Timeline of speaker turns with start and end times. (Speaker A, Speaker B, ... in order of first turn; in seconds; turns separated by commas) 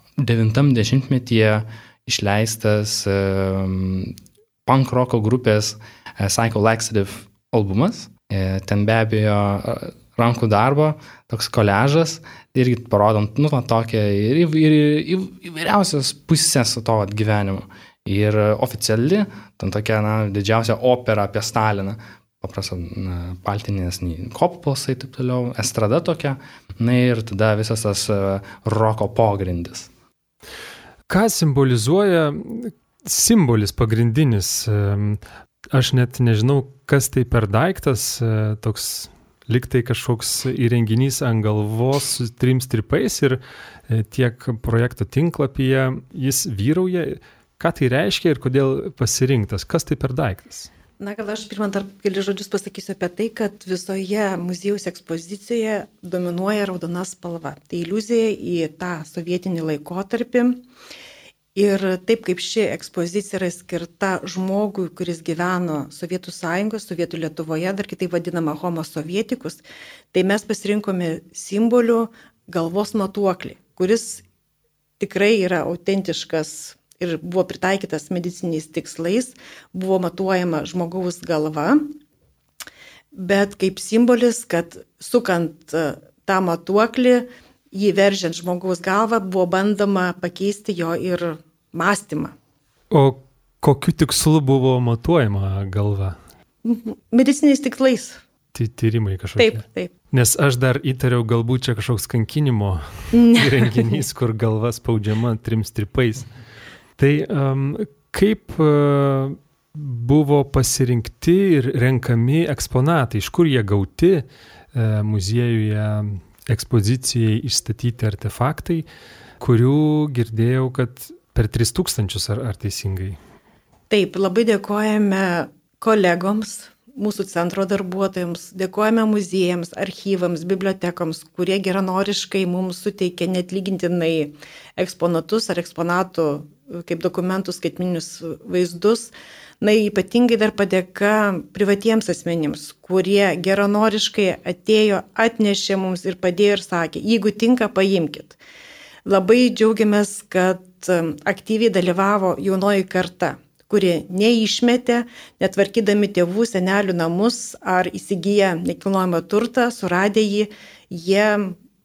Speaker A: 0.2-29.9, Speaker B: 31.1-35.2, Speaker B: 35.7-50.7, Speaker C: 51.0-60.6, Speaker C: 61.5-74.2, Speaker C: 75.0-81.8, Speaker C: 83.1-92.3, Speaker B: 92.9-96.2, Speaker C: 96.6-98.2, Speaker B: 98.5-106.3, Speaker C: 99.4-99.9, Speaker C: 103.1-104.0, Speaker B: 107.0-118.8, Speaker B: 119.4-123.2, Speaker C: 123.9-148.4, Speaker C: 149.1-161.6